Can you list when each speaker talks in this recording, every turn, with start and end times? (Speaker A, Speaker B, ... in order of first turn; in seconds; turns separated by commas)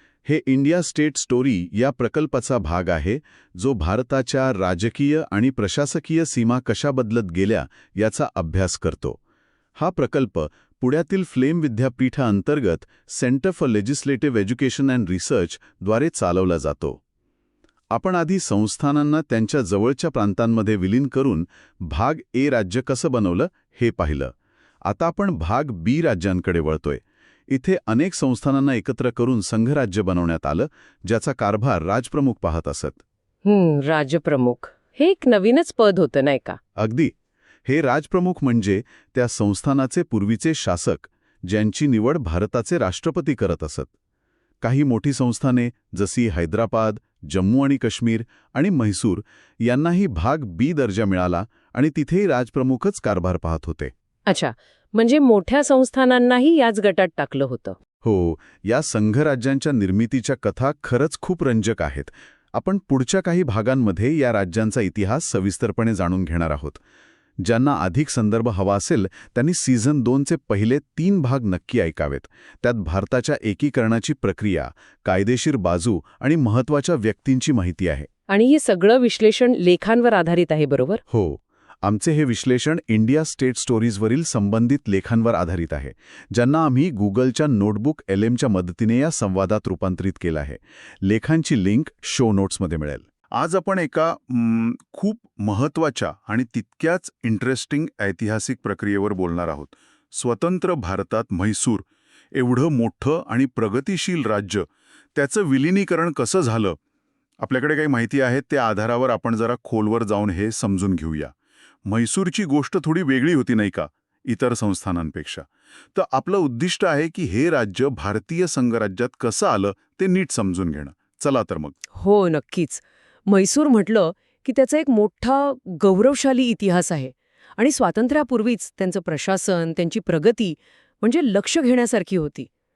Speaker A: 0.3-9.2, Speaker A: 9.8-17.0, Speaker A: 17.9-24.3, Speaker A: 24.9-33.0, Speaker B: 33.5-36.6, Speaker A: 36.8-37.1, Speaker A: 37.7-43.9, Speaker A: 44.6-53.9, Speaker B: 54.3-57.8, Speaker A: 58.0-66.8, Speaker A: 67.4-78.1, Speaker B: 78.3-81.0, Speaker A: 81.1-106.8, Speaker A: 107.4-111.3, Speaker A: 111.9-121.8, Speaker B: 122.0-132.5